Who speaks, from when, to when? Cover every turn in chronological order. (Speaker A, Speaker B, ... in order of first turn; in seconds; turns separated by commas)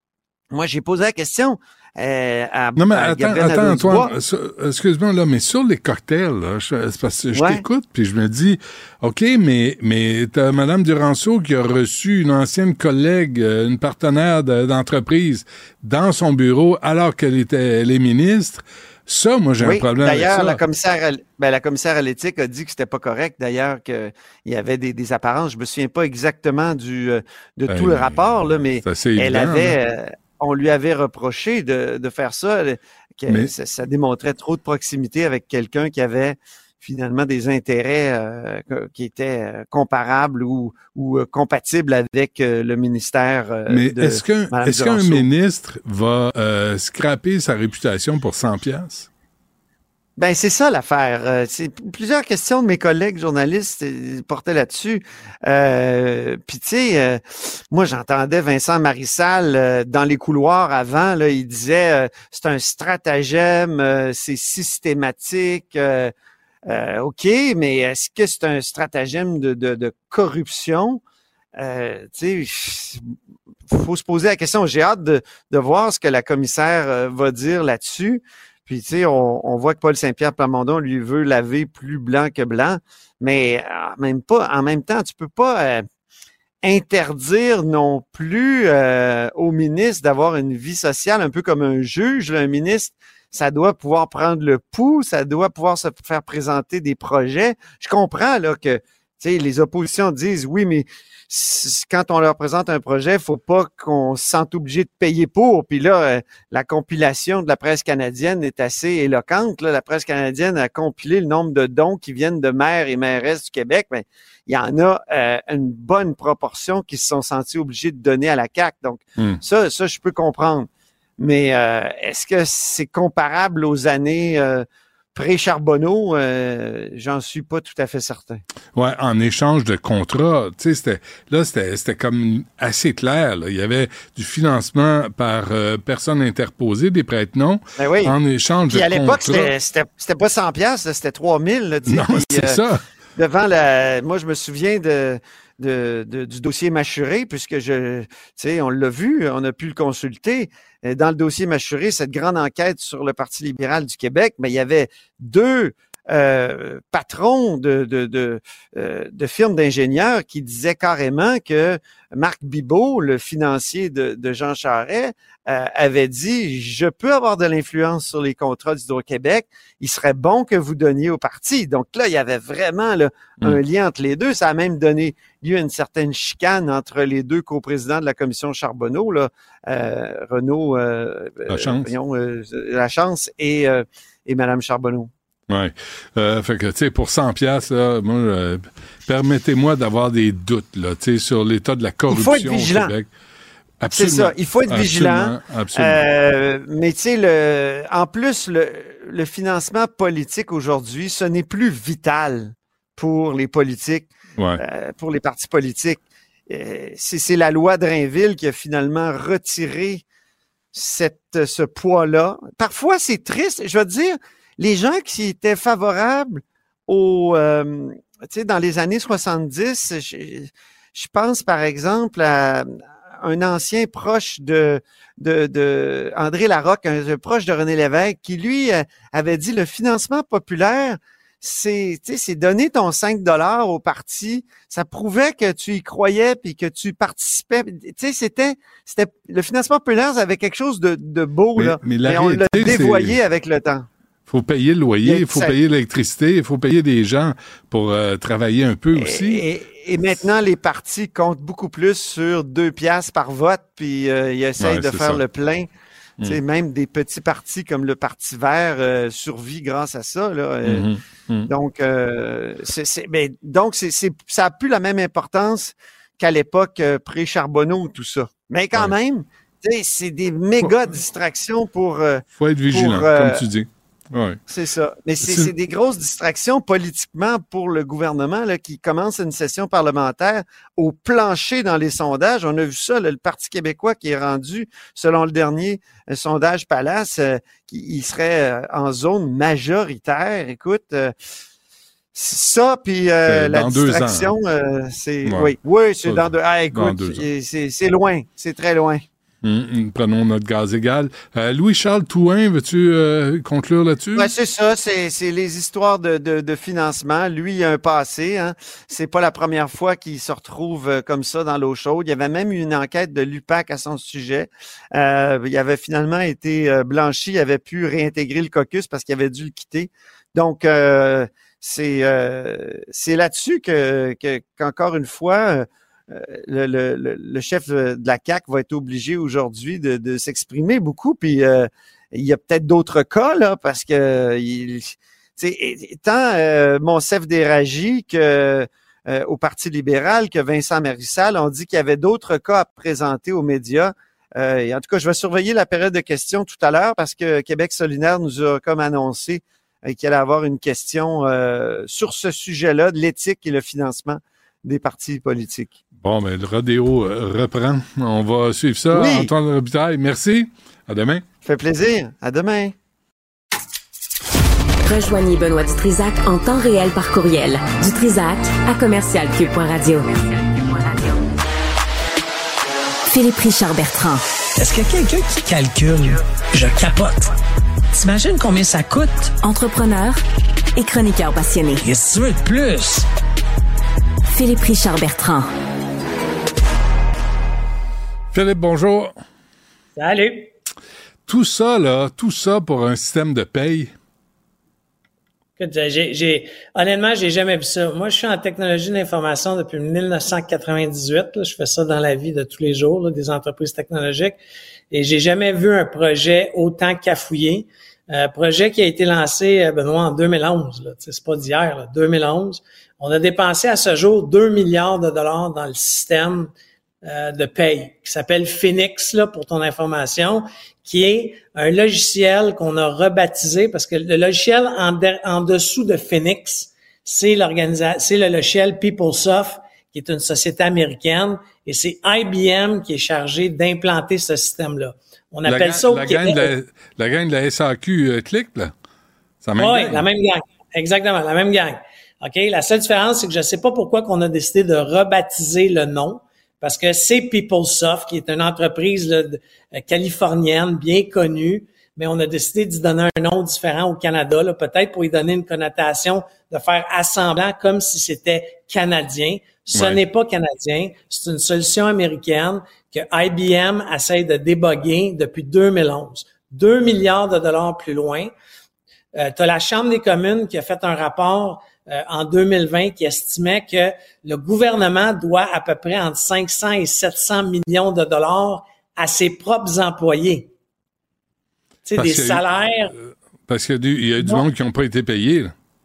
Speaker A: 0.5-4.1, Speaker B: 2.8-20.6, Speaker A: 7.3-7.6, Speaker A: 19.6-45.3, Speaker B: 27.7-29.8, Speaker B: 43.7-49.1, Speaker A: 50.2-66.1, Speaker A: 66.7-71.0, Speaker A: 71.6-73.0, Speaker A: 73.7-85.9, Speaker A: 86.6-128.4, Speaker B: 128.8-139.5, Speaker A: 137.8-138.2, Speaker A: 138.7-142.6, Speaker B: 141.9-142.8, Speaker A: 143.2-185.1, Speaker B: 181.5-181.9, Speaker B: 185.5-193.1, Speaker C: 192.1-192.9, Speaker B: 193.8-196.1, Speaker A: 193.9-210.0, Speaker A: 210.7-243.9, Speaker B: 241.6-243.2, Speaker B: 244.3-249.4, Speaker A: 245.1-245.6, Speaker A: 248.9-255.7, Speaker B: 254.6-255.2, Speaker A: 256.2-260.9, Speaker B: 260.7-261.5, Speaker A: 261.5-273.4, Speaker B: 272.4-274.4, Speaker A: 274.5-291.1, Speaker B: 275.2-275.5, Speaker A: 292.1-299.0, Speaker B: 293.3-294.3, Speaker B: 295.3-295.5, Speaker B: 296.1-297.3, Speaker B: 299.4-304.3, Speaker A: 304.2-355.7, Speaker B: 356.0-361.2, Speaker A: 358.9-359.3, Speaker A: 361.4-362.7, Speaker D: 364.9-371.1, Speaker D: 373.1-374.2, Speaker E: 374.6-377.3, Speaker E: 377.9-379.3, Speaker D: 379.4-380.2, Speaker D: 380.8-381.9, Speaker E: 381.8-383.1, Speaker D: 384.3-385.5, Speaker B: 388.3-389.2, Speaker C: 390.0-390.5, Speaker B: 391.3-393.9, Speaker C: 395.6-404.4, Speaker C: 404.9-416.5, Speaker C: 417.0-436.5, Speaker B: 435.5-438.7, Speaker B: 439.4-440.1, Speaker C: 439.6-468.3, Speaker B: 459.8-460.0, Speaker C: 469.1-480.5, Speaker C: 481.9-482.9, Speaker B: 482.0-482.4, Speaker B: 483.5-485.5, Speaker C: 484.2-484.5